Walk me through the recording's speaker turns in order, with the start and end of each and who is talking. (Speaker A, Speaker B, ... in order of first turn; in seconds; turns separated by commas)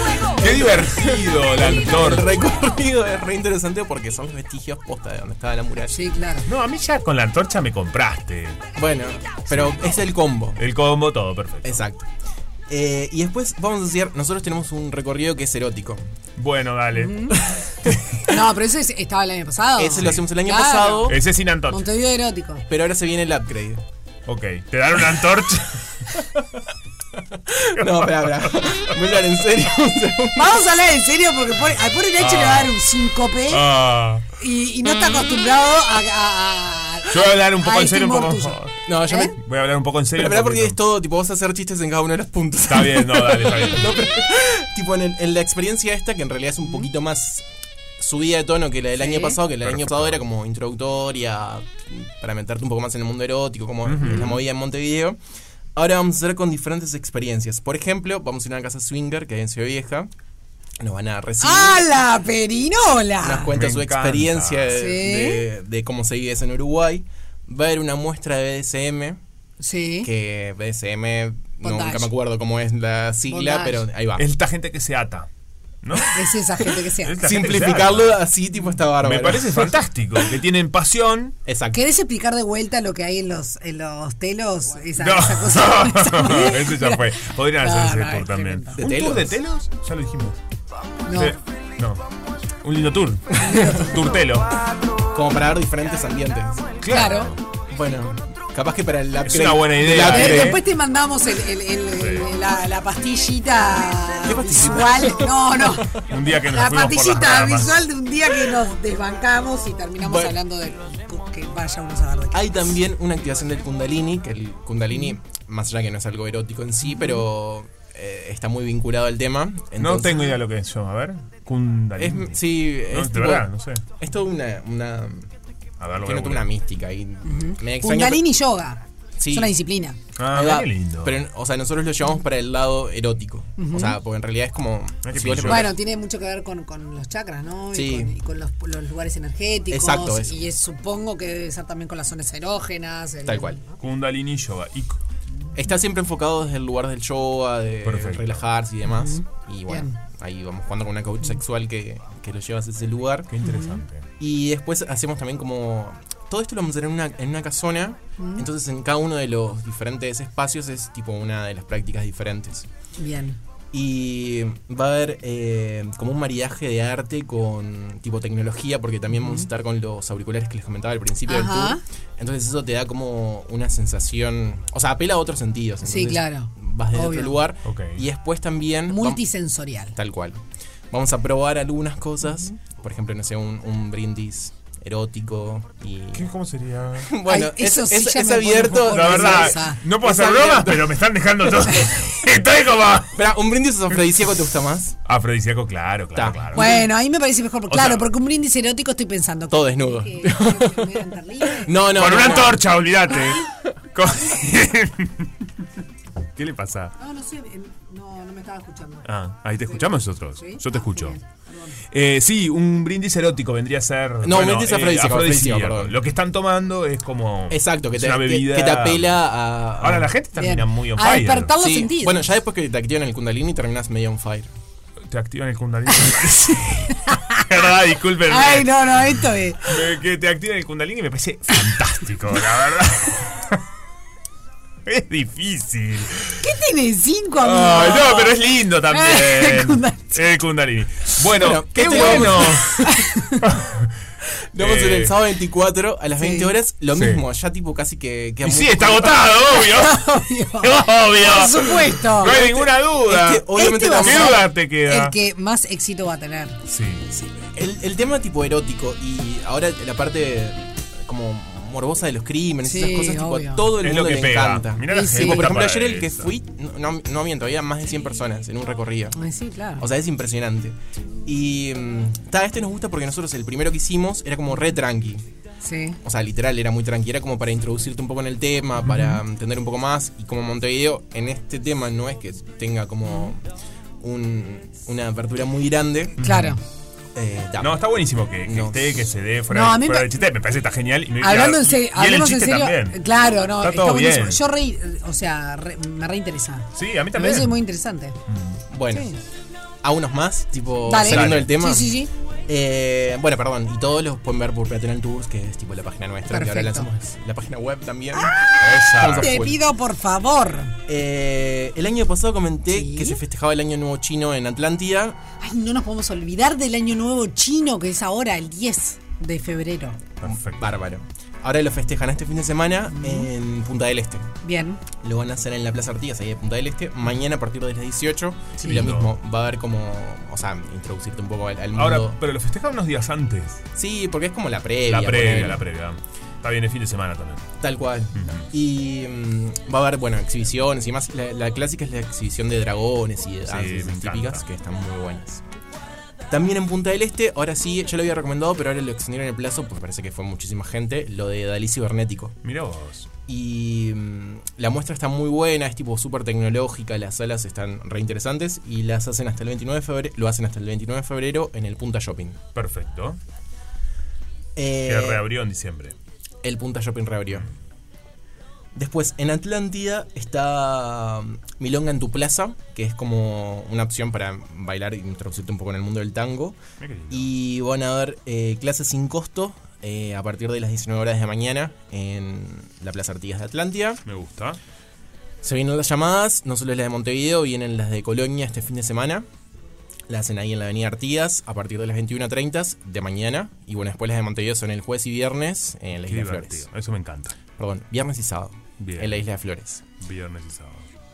Speaker A: 0.3-2.6, Speaker B: 0.4-6.0, Speaker C: 5.9-6.5, Speaker A: 6.5-8.6, Speaker B: 8.8-10.7, Speaker A: 9.5-10.0, Speaker A: 10.6-11.8, Speaker B: 11.6-12.1, Speaker B: 12.7-16.0, Speaker A: 16.4-18.2, Speaker C: 16.9-17.4, Speaker B: 17.3-18.0, Speaker C: 18.3-21.2, Speaker B: 19.8-21.2, Speaker A: 21.1-21.9, Speaker C: 21.7-22.6, Speaker B: 22.7-23.8, Speaker A: 24.3-26.1, Speaker B: 27.5-30.6, Speaker A: 27.8-28.7, Speaker C: 30.4-33.7, Speaker A: 32.2-32.8, Speaker A: 33.5-34.3, Speaker C: 34.4-39.3, Speaker A: 37.1-38.8, Speaker B: 38.9-39.4, Speaker A: 39.4-40.8, Speaker B: 40.1-47.5, Speaker A: 42.7-44.0, Speaker B: 48.0-55.2, Speaker C: 49.0-49.4, Speaker A: 49.5-50.2, Speaker A: 53.9-54.4, Speaker B: 55.8-60.1, Speaker B: 60.8-61.9, Speaker C: 61.4-63.5, Speaker B: 63.2-69.2, Speaker A: 63.5-64.8, Speaker C: 64.8-65.5, Speaker C: 69.6-70.1, Speaker B: 70.0-74.3, Speaker C: 71.6-72.1, Speaker C: 73.3-73.9, Speaker A: 74.2-75.3, Speaker A: 75.8-78.2, Speaker C: 76.1-77.2, Speaker B: 77.2-79.8, Speaker A: 79.0-81.4, Speaker B: 81.5-81.9, Speaker C: 81.7-88.8, Speaker A: 85.0-90.4, Speaker B: 88.8-89.4, Speaker C: 91.1-91.4, Speaker A: 91.1-92.0, Speaker A: 92.6-94.5, Speaker C: 93.4-94.0, Speaker B: 95.1-96.8, Speaker A: 96.8-97.4, Speaker C: 96.9-97.3, Speaker B: 97.6-100.6, Speaker A: 99.2-100.6, Speaker C: 100.0-112.7, Speaker A: 102.0-102.3, Speaker B: 104.2-106.0, Speaker A: 105.9-107.8, Speaker B: 110.0-110.4, Speaker B: 112.3-120.3, Speaker C: 116.8-117.2, Speaker A: 119.8-123.8, Speaker B: 122.0-125.3, Speaker A: 125.8-126.5, Speaker B: 126.0-128.3, Speaker C: 127.2-128.8, Speaker B: 129.2-129.5, Speaker C: 129.3-130.0, Speaker A: 130.2-131.2, Speaker B: 130.3-135.8, Speaker C: 133.6-134.0, Speaker A: 135.0-135.7, Speaker C: 135.4-143.8, Speaker B: 137.7-138.2, Speaker B: 139.7-140.5, Speaker B: 143.2-143.6, Speaker A: 143.8-145.0, Speaker B: 145.6-153.3, Speaker A: 147.8-148.5, Speaker C: 148.9-150.0, Speaker A: 153.3-154.1, Speaker C: 153.4-153.8, Speaker B: 154.2-162.7, Speaker C: 158.2-158.5, Speaker C: 163.0-163.4, Speaker B: 163.7-179.2, Speaker C: 169.1-169.5, Speaker C: 171.3-171.8, Speaker C: 175.8-177.4, Speaker A: 177.6-178.0, Speaker C: 178.9-180.0, Speaker B: 179.9-186.3, Speaker C: 182.2-182.6, Speaker A: 186.1-187.1, Speaker B: 187.0-191.0, Speaker C: 187.3-189.8, Speaker A: 188.8-193.2, Speaker B: 193.1-195.0, Speaker A: 195.1-196.8, Speaker B: 196.2-196.9, Speaker C: 196.6-202.5, Speaker A: 197.7-198.1, Speaker B: 199.5-202.7, Speaker A: 201.8-205.3, Speaker C: 203.1-203.4, Speaker A: 206.4-206.9, Speaker C: 207.0-209.1, Speaker A: 209.1-211.2, Speaker C: 209.6-211.8, Speaker A: 211.9-219.2, Speaker B: 214.2-216.0, Speaker B: 217.5-220.1, Speaker A: 219.8-221.5, Speaker C: 220.4-222.2, Speaker B: 221.6-224.5, Speaker A: 225.1-229.1, Speaker C: 227.1-227.4, Speaker C: 228.3-229.7, Speaker A: 229.6-233.6, Speaker A: 234.9-236.5, Speaker C: 236.4-240.2, Speaker A: 237.4-244.0, Speaker B: 241.3-243.0, Speaker C: 241.8-243.5, Speaker B: 244.5-249.3, Speaker A: 244.6-245.2, Speaker C: 246.2-246.6, Speaker A: 246.9-247.2, Speaker A: 248.4-255.2, Speaker C: 249.6-252.5, Speaker B: 252.2-254.5, Speaker C: 253.5-256.6, Speaker A: 256.7-257.1, Speaker B: 257.1-269.2, Speaker C: 262.6-263.7, Speaker A: 263.8-266.3, Speaker C: 264.9-265.5, Speaker C: 269.1-269.9, Speaker B: 269.8-275.2, Speaker C: 275.6-276.0, Speaker B: 276.0-283.4, Speaker A: 278.8-279.2, Speaker C: 283.1-283.3, Speaker B: 284.0-286.2, Speaker A: 286.2-286.6, Speaker C: 286.2-286.6, Speaker B: 287.1-289.1, Speaker A: 287.6-293.0, Speaker C: 289.5-290.2, Speaker C: 291.2-298.2, Speaker A: 293.6-294.4, Speaker A: 296.8-297.6, Speaker A: 298.3-298.6, Speaker B: 298.7-299.1, Speaker C: 298.9-299.2, Speaker B: 299.8-301.9, Speaker C: 300.9-302.1, Speaker A: 301.0-301.5, Speaker B: 302.5-309.6, Speaker C: 306.3-306.9, Speaker C: 308.1-310.8, Speaker A: 308.6-309.4, Speaker B: 310.9-315.2, Speaker C: 312.7-313.2, Speaker C: 315.4-320.0, Speaker A: 320.2-320.7, Speaker B: 320.3-324.3, Speaker C: 322.9-323.3, Speaker C: 324.4-324.8, Speaker B: 324.9-332.2, Speaker C: 328.6-328.9, Speaker A: 328.6-329.2, Speaker A: 331.7-333.6, Speaker B: 333.8-335.6, Speaker A: 334.9-337.5, Speaker B: 337.6-345.4, Speaker A: 338.1-338.5, Speaker A: 343.4-344.4, Speaker B: 346.3-352.4, Speaker A: 352.4-353.1, Speaker B: 353.3-362.4, Speaker A: 362.6-363.2, Speaker B: 364.6-365.3, Speaker A: 364.8-365.9, Speaker B: 366.4-367.5, Speaker B: 368.8-376.6, Speaker A: 376.8-377.3, Speaker B: 377.1-384.0, Speaker A: 384.1-384.6, Speaker B: 385.4-389.3, Speaker B: 390.1-396.7, Speaker A: 396.1-397.4, Speaker B: 397.5-399.9, Speaker A: 398.8-399.2, Speaker A: 400.0-400.9